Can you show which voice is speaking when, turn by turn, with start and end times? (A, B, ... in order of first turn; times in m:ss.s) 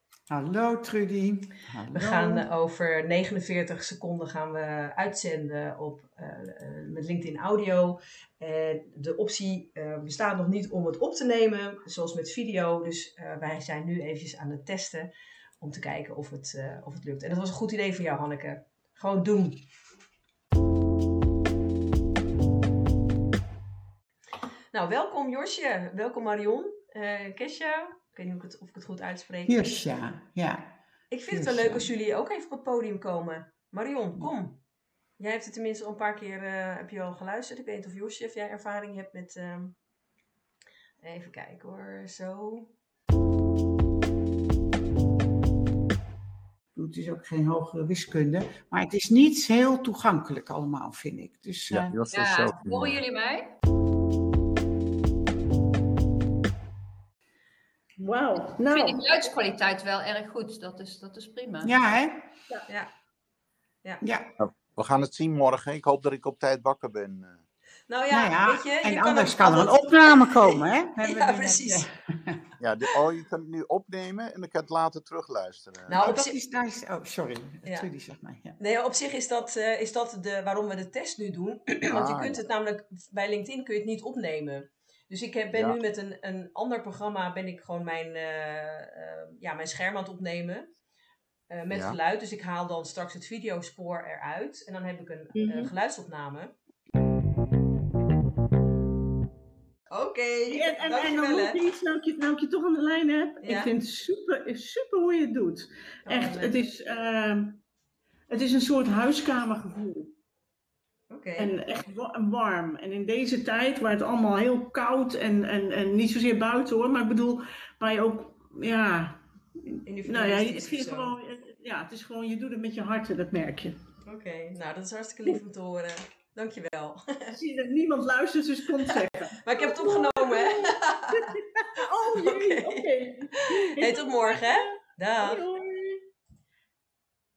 0:00.3-0:02.5 A
0:01.9-0:19.6 B
0:24.7-0:29.6 B
0:29.4-0:30.7 A
0:31.1-0:34.6 B
0:31.3-0:31.9 A
0:35.2-0:39.8 B
0:41.0-0:42.7 B
0:46.7-0:51.9 A
0:51.7-0:53.0 C
0:52.1-0:53.6 D
0:58.0-0:59.0 E
0:58.7-1:01.7 D
1:01.6-1:02.3 A
1:04.0-1:04.3 A
1:04.4-1:07.4 C
1:07.9-1:11.8 B
1:08.1-1:12.4 A
1:12.6-1:16.0 C
1:15.9-1:16.4 B
1:16.0-1:18.6 A
1:18.6-1:30.7 B
1:21.9-1:22.4 C
1:31.5-1:36.5 B
1:31.7-1:32.0 C
1:35.3-1:35.7 E
1:39.9-1:41.6 B
1:40.5-1:47.6 E
1:43.4-1:43.7 B
1:46.0-1:46.6 B
1:48.3-1:50.1 E
1:51.1-1:51.5 B
1:51.4-2:03.8 E
1:59.8-2:01.2 B
2:04.0-2:07.4 B
2:07.3-2:16.0 E
2:08.8-2:11.4 B
2:12.1-2:15.4 B